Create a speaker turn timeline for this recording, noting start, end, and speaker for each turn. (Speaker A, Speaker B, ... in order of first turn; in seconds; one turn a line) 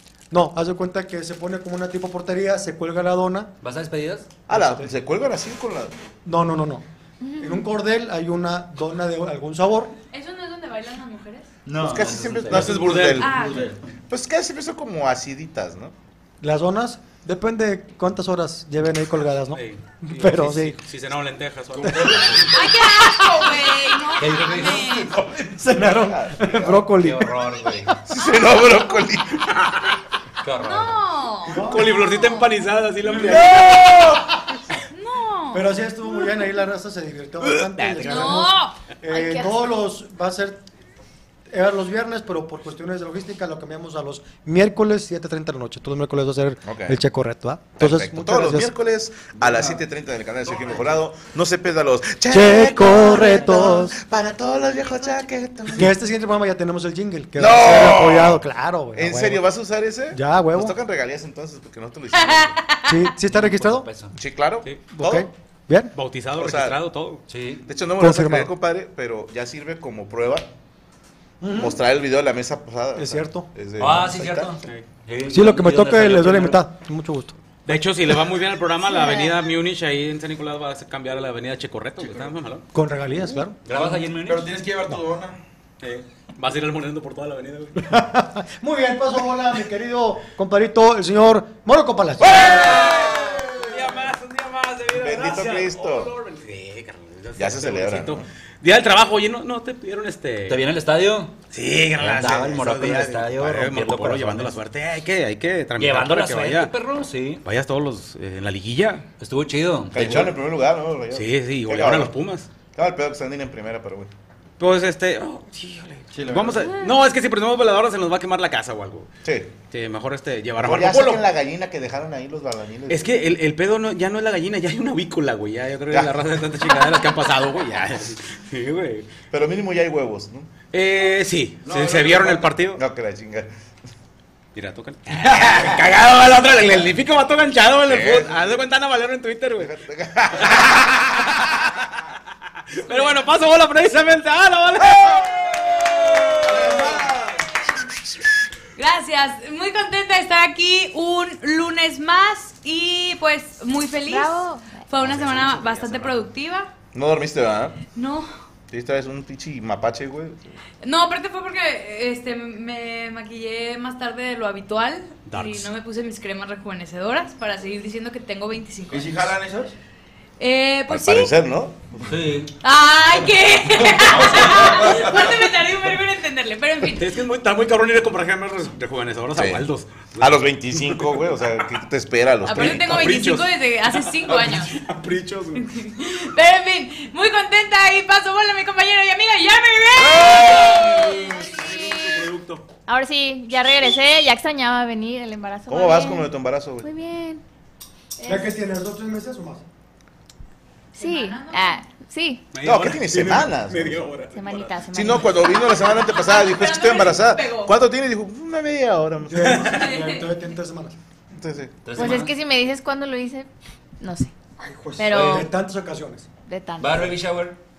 Speaker A: 0.3-3.5
Speaker B: 3.6-4.3
Speaker C: 4.5-6.0
Speaker A: 4.5-4.9
Speaker A: 6.2-6.8
Speaker D: 7.2-7.6
Speaker A: 7.4-9.9
Speaker E: 10.1-11.5
Speaker B: 11.7-13.0
Speaker C: 11.8-15.9
Speaker F: 12.5-13.3
Speaker E: 12.9-13.7
Speaker G: 13.3-13.8
Speaker A: 16.4-20.8
Speaker F: 19.5-22.6
Speaker A: 21.8-22.6
Speaker C: 22.0-22.5
Speaker E: 22.5-25.2
Speaker B: 24.2-25.5
Speaker C: 25.2-26.9
Speaker A: 25.6-28.0
Speaker B: 26.9-27.9
Speaker C: 28.1-29.6
Speaker B: 30.4-31.1
Speaker E: 30.6-32.6
Speaker A: 31.5-32.1
Speaker F: 31.6-33.8
Speaker A: 33.0-33.5
Speaker C: 33.1-34.4
Speaker E: 34.9-35.7
Speaker A: 35.5-40.6
Speaker B: 37.8-38.3
Speaker E: 38.0-38.8
Speaker D: 38.0-38.5
Speaker D: 39.1-39.8
Speaker A: 41.5-48.7
Speaker C: 46.6-47.0
Speaker C: 47.8-56.0
Speaker A: 52.3-54.0
Speaker E: 54.8-55.3
Speaker A: 55.8-59.4
Speaker C: 57.4-62.6
Speaker A: 60.1-60.8
Speaker E: 62.3-62.6
Speaker A: 62.9-63.9
Speaker B: 63.3-64.1
Speaker C: 64.2-65.3
Speaker A: 64.9-65.9
Speaker F: 66.0-67.2
Speaker C: 66.4-66.8
Speaker B: 67.3-67.7
Speaker C: 67.7-70.5
Speaker A: 68.0-68.5
Speaker A: 71.4-71.8
Speaker C: 71.5-74.5
Speaker A: 73.0-73.5
Speaker B: 73.8-76.6
Speaker A: 75.3-77.4
Speaker F: 77.7-82.7
Speaker D: 78.9-79.3
Speaker G: 82.0-82.3
Speaker A: 82.7-83.6
Speaker B: 83.7-84.6
Speaker G: 83.7-85.4
Speaker F: 85.8-87.9
Speaker A: 87.8-92.9
Speaker C: 92.2-93.6
Speaker F: 92.5-100.6
Speaker C: 94.9-96.1
Speaker C: 97.4-98.3
Speaker B: 100.5-101.4
Speaker F: 101.5-106.7
Speaker B: 102.0-104.6
Speaker C: 102.2-102.7
Speaker B: 105.8-107.4
Speaker F: 107.4-109.1
Speaker B: 109.2-110.3
Speaker C: 109.9-112.2
Speaker F: 111.1-112.5
Speaker C: 112.7-114.1
Speaker F: 114.6-119.1
Speaker G: 116.1-116.8
Speaker C: 119.2-119.5
Speaker F: 119.7-121.2
Speaker C: 120.6-123.2
Speaker F: 122.9-129.1
Speaker C: 125.9-126.2
Speaker C: 129.3-130.5
Speaker F: 130.7-132.8
Speaker G: 131.6-132.5
Speaker C: 132.7-133.5
Speaker F: 134.6-139.7
Speaker C: 137.8-138.6
Speaker C: 139.6-141.3
Speaker F: 140.4-141.0
Speaker F: 142.7-147.0
Speaker C: 144.9-147.2
Speaker G: 146.4-147.5
Speaker E: 148.8-156.7
Speaker D: 154.1-154.9
Speaker C: 155.0-155.9
Speaker C: 156.9-157.8
Speaker E: 157.9-158.3
Speaker C: 158.7-160.6
Speaker E: 160.8-169.4
Speaker F: 165.3-165.7
Speaker G: 168.9-169.8
Speaker E: 170.4-171.3
Speaker C: 170.9-171.9
Speaker B: 172.0-172.6
Speaker E: 172.6-177.2
Speaker B: 174.1-174.8
Speaker F: 177.0-181.2
Speaker C: 179.3-179.7
Speaker C: 180.2-183.2
Speaker E: 182.4-184.8
Speaker F: 182.5-185.7
Speaker E: 185.6-191.8
Speaker C: 190.0-191.0
Speaker F: 190.3-192.7
Speaker D: 192.9-196.3
Speaker C: 195.7-196.9
Speaker D: 196.8-197.4
Speaker D: 198.2-198.6
Speaker A: 198.3-199.6
Speaker D: 200.9-202.5
Speaker E: 201.0-201.8
Speaker F: 202.5-204.8
Speaker C: 202.6-204.1
Speaker D: 204.3-205.5
Speaker C: 204.9-209.7
Speaker E: 205.3-207.8
Speaker A: 209.3-211.0
Speaker E: 209.7-210.3
Speaker C: 211.3-211.9
Speaker B: 211.8-212.3
Speaker D: 211.9-213.5
Speaker D: 214.0-214.3
Speaker G: 214.6-215.3
Speaker D: 215.0-215.5
Speaker B: 215.1-215.5
Speaker A: 215.2-216.3
Speaker D: 216.5-217.2
Speaker B: 216.8-217.6